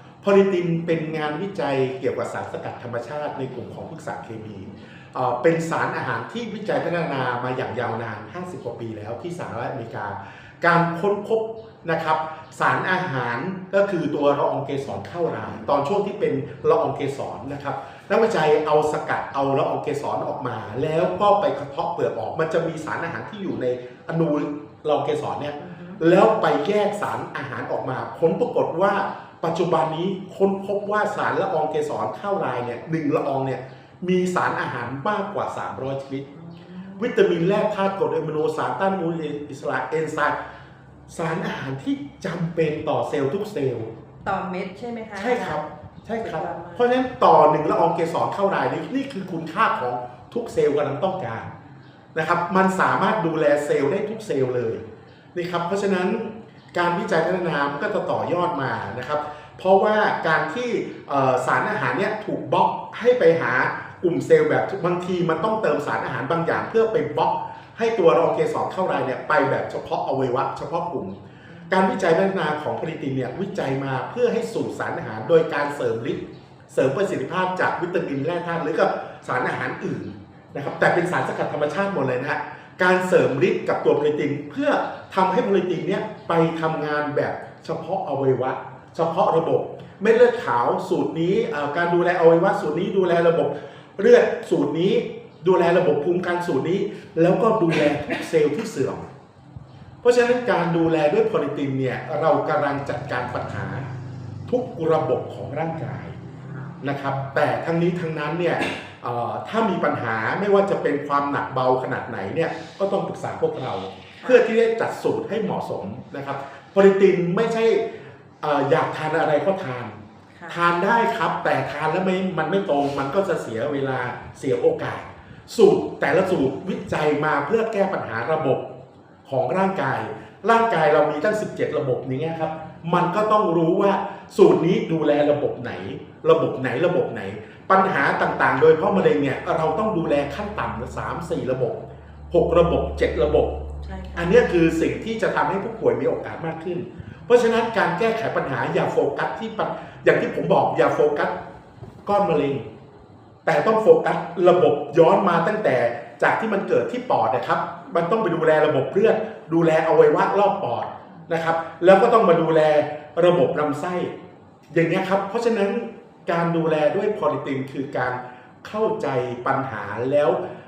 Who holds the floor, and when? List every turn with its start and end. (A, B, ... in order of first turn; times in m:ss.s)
0:00.2-0:36.2 A
0:25.6-0:26.0 B
0:36.3-0:37.2 B
0:37.0-0:40.3 A
0:41.1-0:43.9 A
0:44.2-0:45.6 B
0:45.2-0:51.5 A
0:46.2-0:46.9 B
0:52.1-0:54.8 A
0:55.3-1:11.2 A
1:11.7-1:39.1 A
1:40.0-1:43.9 A
1:44.5-1:46.2 A
1:46.4-1:46.8 B
1:46.8-1:57.9 A
1:54.2-1:54.4 B
1:58.4-2:00.0 A
2:00.3-2:00.6 B
2:00.5-2:08.6 A
2:09.2-2:23.5 A
2:23.8-2:24.5 B
2:24.2-2:31.3 A
2:32.0-2:32.6 A
2:33.4-2:44.1 A
2:44.7-2:50.4 A